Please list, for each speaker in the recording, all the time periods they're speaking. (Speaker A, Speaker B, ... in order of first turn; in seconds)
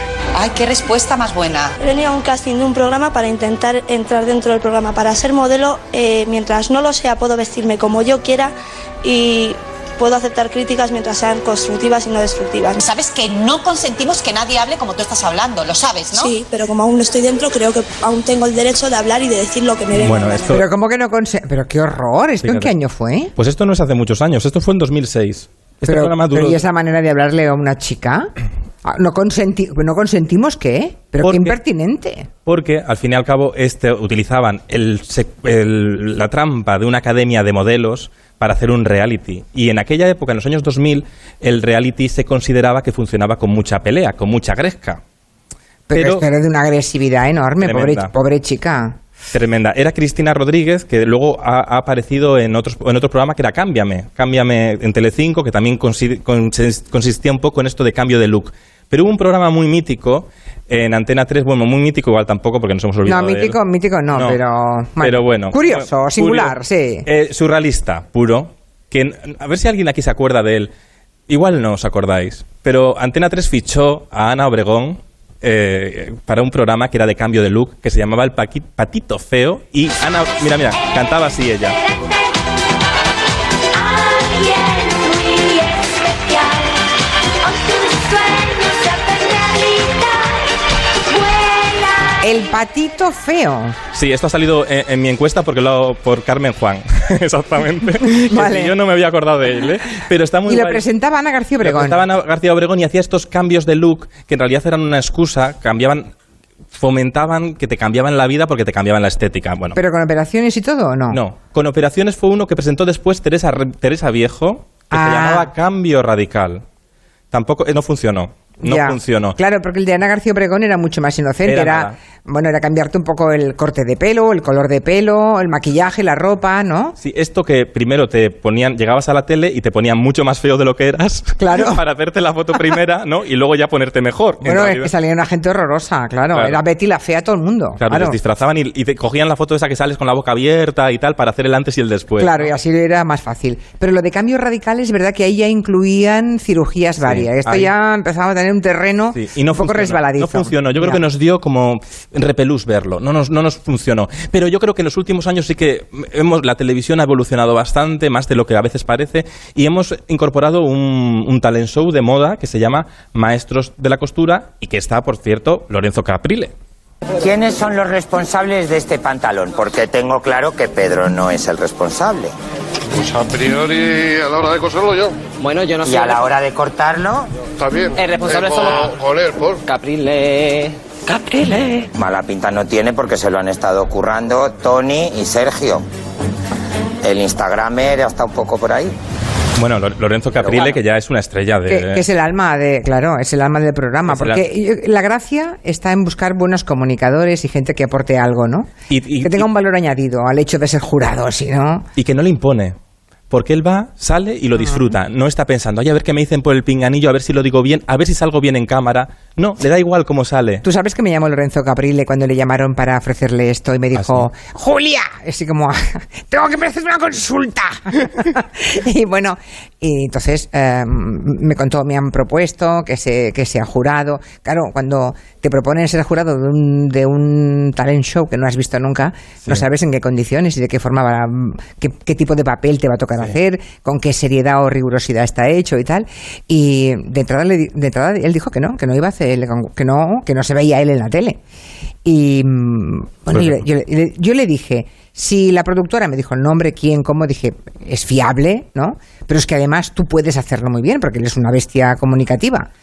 Speaker A: 0.3-1.7, 12.8-16.3
Speaker B: 1.8-12.8, 16.1-20.6
Speaker C: 19.9-20.6, 22.4-22.7, 23.4-26.6, 31.2-31.5, 32.5-45.0, 45.9-46.2, 47.6-48.1, 49.3-63.6, 64.1-64.4, 65.0-70.7, 71.3-81.8, 93.9-100.8, 101.6-106.1, 106.7-109.8, 111.1-116.6, 117.3-119.3, 121.4-121.9, 127.0-134.9, 136.3-136.6, 137.8-142.5, 147.0-147.7, 149.1-166.5, 189.6-192.0, 194.1-194.4, 198.9-199.5, 202.0-202.7, 203.3-210.6, 213.9-214.2, 243.3-243.6
Speaker D: 20.5-23.3, 25.9-28.3, 28.8-32.3, 45.9-49.0, 63.0-67.1, 92.2-93.8, 98.1-98.7, 100.5-102.0, 109.7-111.2, 114.9-115.5, 118.6-127.0, 131.4-131.8, 134.4-138.2, 142.2-151.0, 191.7-198.7, 199.2-201.8, 210.6-241.4, 242.0-252.7
Speaker E: 84.0-86.7, 87.7-90.2, 91.3-91.9
Speaker F: 167.2-172.3, 175.8-177.3, 181.9-185.8, 187.0-188.9, 190.4-190.8
Speaker G: 175.4-175.7, 178.0-178.8, 179.7-180.7
Speaker H: 175.5-176.1, 177.9-180.1, 181.1-181.8